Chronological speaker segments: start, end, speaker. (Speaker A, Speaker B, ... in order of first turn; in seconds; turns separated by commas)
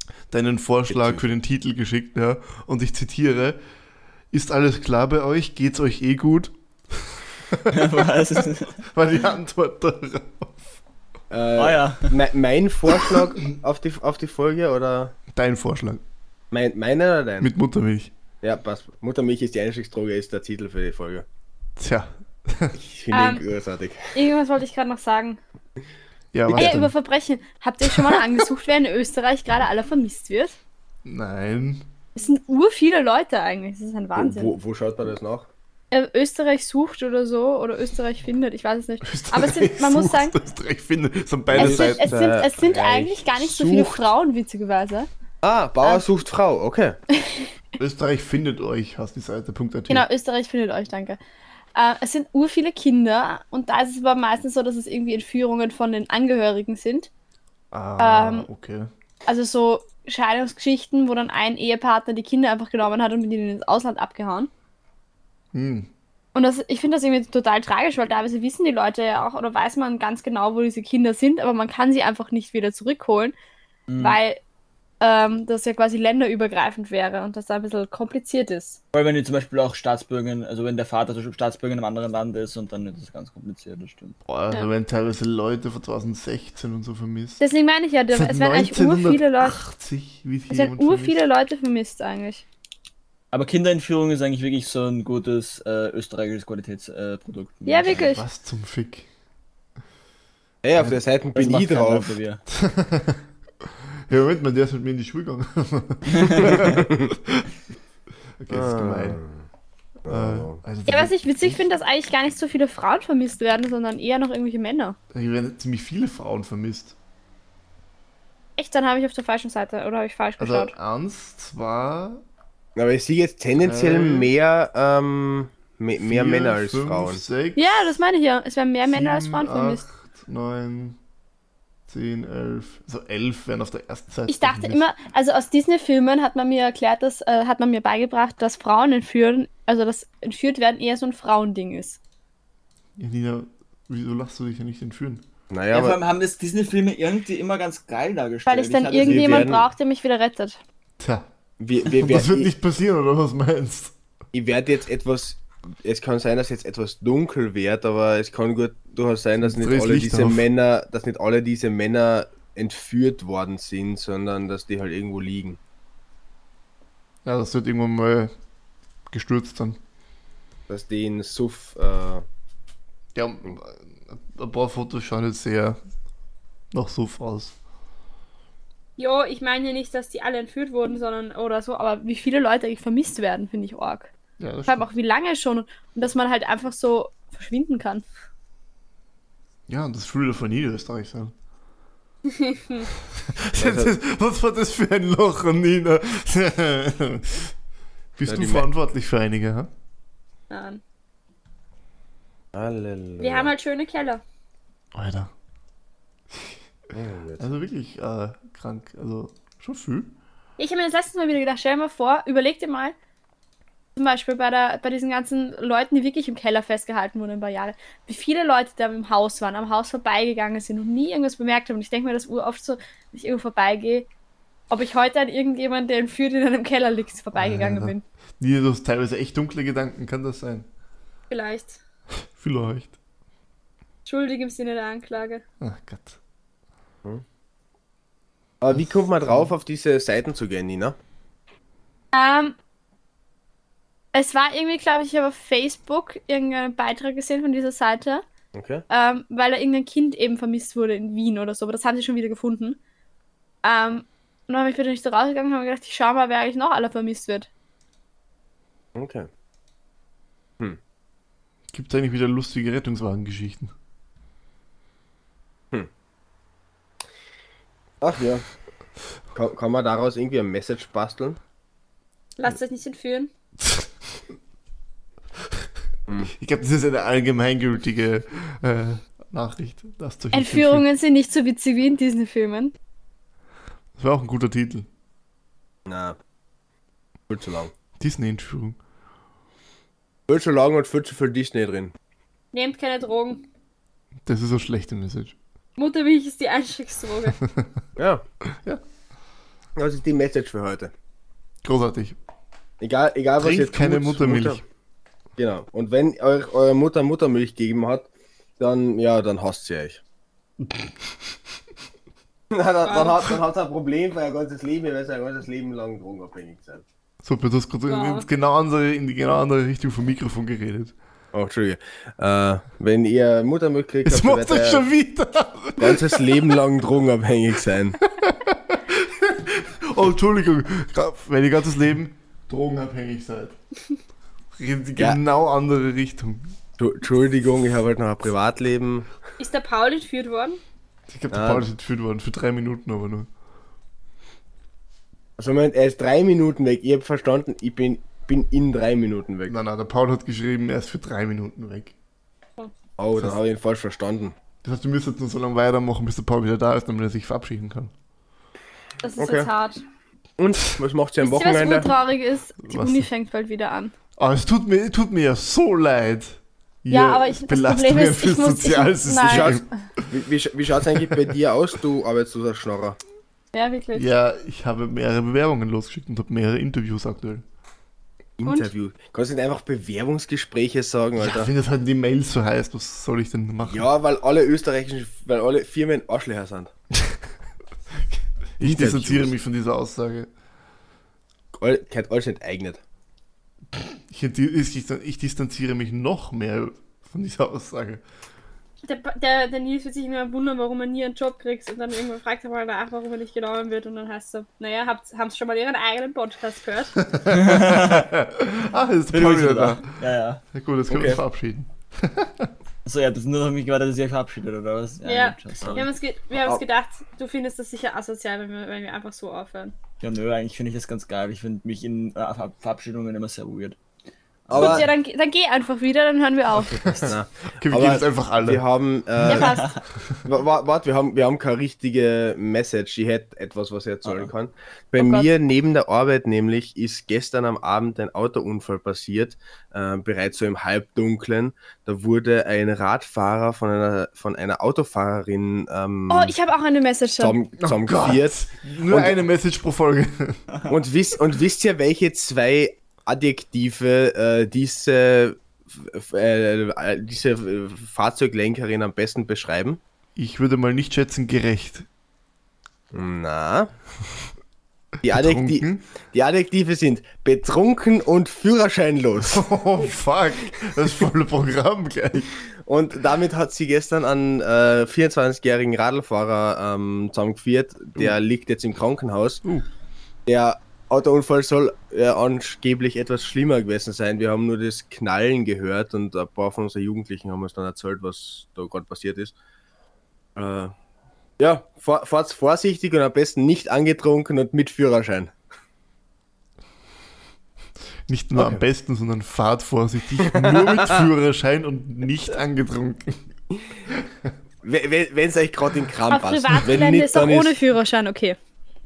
Speaker A: 0.3-3.6, Speaker B: 0.9-1.2, Speaker A: 4.3-8.1, Speaker C: 7.7-8.8, Speaker A: 8.9-10.7, Speaker B: 11.3-15.1, Speaker C: 11.6-12.1, Speaker A: 15.3-16.0, Speaker B: 16.5-17.5, Speaker A: 17.4-18.1, Speaker B: 18.4-21.2, Speaker A: 21.8-22.8, Speaker B: 22.8-24.2, Speaker D: 23.1-23.4, Speaker D: 24.1-25.4, Speaker A: 26.3-26.9, Speaker B: 26.5-26.8, Speaker D: 26.5-30.6, Speaker A: 31.1-31.8, Speaker D: 32.2-34.5, Speaker B: 34.2-35.5, Speaker D: 35.9-40.4, Speaker A: 39.0-42.2, Speaker B: 41.5-44.0, Speaker D: 41.5-45.1, Speaker B: 45.4-47.0, Speaker D: 47.2-47.5, Speaker A: 47.8-50.1, Speaker D: 49.9-51.2, Speaker D: 51.8-57.1, Speaker A: 57.7-58.9, Speaker D: 58.0-58.5, Speaker D: 59.3-64.5, Speaker A: 65.5-65.9, Speaker D: 66.3-73.3, Speaker C: 73.9-74.2, Speaker D: 74.0-74.4, Speaker D: 75.0-78.8, Speaker C: 78.9-84.2, Speaker A: 84.3-87.4, Speaker D: 87.4-89.6, Speaker A: 88.1-91.2, Speaker D: 90.5-92.5, Speaker C: 93.3-98.1, Speaker D: 97.7-98.2, Speaker A: 98.0-99.1, Speaker B: 100.6-102.2, Speaker C: 101.3-102.4, Speaker A: 102.5-103.2, Speaker A: 104.1-107.5, Speaker C: 106.1-106.8, Speaker B: 106.6-107.1, Speaker A: 108.4-109.2, Speaker B: 108.5-109.4, Speaker B: 110.0-110.6, Speaker A: 110.1-111.6, Speaker D: 110.9-115.0, Speaker A: 115.1-117.0, Speaker D: 118.6-120.7, Speaker A: 120.4-122.2, Speaker B: 122.8-127.2, Speaker A: 123.6-124.3, Speaker A: 126.0-128.0, Speaker D: 127.6-129.8, Speaker A: 128.9-131.0, Speaker A: 131.9-134.8, Speaker D: 134.3-142.0, Speaker A: 143.0-145.2, Speaker B: 145.5-146.0, Speaker C: 145.7-149.5, Speaker D: 148.5-150.6, Speaker B: 149.0-149.7, Speaker A: 151.0-151.3, Speaker B: 151.6-152.5, Speaker A: 151.9-153.9, Speaker B: 154.3-165.6, Speaker A: 159.4-160.4, Speaker A: 167.2-168.3, Speaker A: 169.1-169.8, Speaker B: 170.7-172.2, Speaker A: 173.2-175.8, Speaker A: 176.7-177.5, Speaker D: 179.0-184.1, Speaker A: 184.4-184.9, Speaker D: 184.7-188.0, Speaker A: 189.7-191.3, Speaker D: 192.3-192.9, Speaker A: 193.2-197.5, Speaker B: 193.6-193.9, Speaker A: 198.2-199.7, Speaker B: 198.3-198.7, Speaker D: 200.5-200.8, Speaker B: 202.5-203.5, Speaker D: 203.2-204.2, Speaker A: 204.9-205.3, Speaker B: 206.9-207.5, Speaker A: 207.4-210.1, Speaker D: 210.6-212.9, Speaker D: 214.0-224.1, Speaker D: 224.7-228.0, Speaker A: 227.3-230.7, Speaker D: 231.3-231.8, Speaker A: 232.4-233.0, Speaker D: 234.1-235.4, Speaker A: 235.6-236.2, Speaker B: 238.6-241.0, Speaker D: 242.1-242.6, Speaker D: 244.1-248.2, Speaker B: 248.5-248.8, Speaker D: 248.9-252.8, Speaker D: 253.6-257.5, Speaker B: 258.9-259.3, Speaker A: 261.7-263.7, Speaker B: 268.0-268.4, Speaker B: 269.3-271.4, Speaker D: 272.4-273.3, Speaker A: 276.3-280.8, Speaker D: 280.3-282.7, Speaker A: 284.0-284.9, Speaker B: 285.9-286.2, Speaker B: 287.3-287.7, Speaker A: 288.0-288.8, Speaker B: 290.3-291.9, Speaker D: 292.5-293.4, Speaker A: 294.2-295.4, Speaker D: 295.8-297.4, Speaker B: 298.0-298.2, Speaker A: 298.5-298.8, Speaker B: 299.8-300.9, Speaker A: 301.6-302.2, Speaker B: 302.8-304.6, Speaker A: 303.4-304.6, Speaker B: 305.4-308.1, Speaker B: 308.6-310.0, Speaker A: 310.6-310.9, Speaker B: 312.5-316.8, Speaker D: 312.9-313.2, Speaker A: 317.2-320.9, Speaker D: 317.9-318.3, Speaker B: 321.3-324.9, Speaker A: 324.1-326.4, Speaker B: 325.8-328.0, Speaker A: 328.1-333.6, Speaker A: 334.6-336.6, Speaker B: 336.8-339.1, Speaker D: 339.4-340.6, Speaker A: 341.1-343.3, Speaker B: 341.3-341.6, Speaker B: 345.4-349.6, Speaker A: 349.5-351.9, Speaker B: 353.0-354.4, Speaker A: 354.6-357.9, Speaker D: 359.0-359.8, Speaker B: 359.2-359.5, Speaker B: 360.4-361.9, Speaker D: 361.2-363.9, Speaker A: 362.6-363.1, Speaker A: 364.2-370.1, Speaker D: 366.9-369.7, Speaker B: 369.3-373.0, Speaker A: 370.9-371.3, Speaker D: 373.5-374.1, Speaker A: 373.9-377.4, Speaker B: 378.4-381.5, Speaker D: 378.4-378.7, Speaker A: 381.2-383.9, Speaker B: 383.6-386.7, Speaker A: 388.1-390.3, Speaker B: 388.6-389.3, Speaker B: 391.6-392.8, Speaker A: 393.8-398.0, Speaker D: 398.8-407.0, Speaker A: 407.0-409.8, Speaker C: 407.3-408.1, Speaker C: 409.1-410.4, Speaker A: 410.5-412.5, Speaker B: 410.9-411.2, Speaker C: 412.9-415.9, Speaker D: 415.1-419.8, Speaker B: 415.6-416.6, Speaker C: 420.0-423.8, Speaker C: 424.5-424.9, Speaker B: 424.5-424.9, Speaker D: 424.6-426.9, Speaker C: 426.7-427.1, Speaker A: 426.9-428.6, Speaker B: 427.1-446.3, Speaker D: 429.2-429.7, Speaker C: 429.5-429.8, Speaker C: 434.1-434.3, Speaker D: 435.0-435.3, Speaker D: 446.1-447.4, Speaker B: 447.2-449.2, Speaker A: 447.6-450.4, Speaker B: 450.7-459.8, Speaker A: 460.2-461.9, Speaker B: 462.9-463.7, Speaker B: 465.0-469.4, Speaker A: 465.1-465.8, Speaker A: 469.2-472.3, Speaker B: 472.7-479.4, Speaker B: 480.3-489.3, Speaker B: 490.4-490.7, Speaker B: 491.4-495.3, Speaker A: 498.1-503.2, Speaker B: 498.4-498.6, Speaker B: 500.2-501.0, Speaker A: 503.9-504.3, Speaker B: 504.6-507.6, Speaker D: 506.1-508.4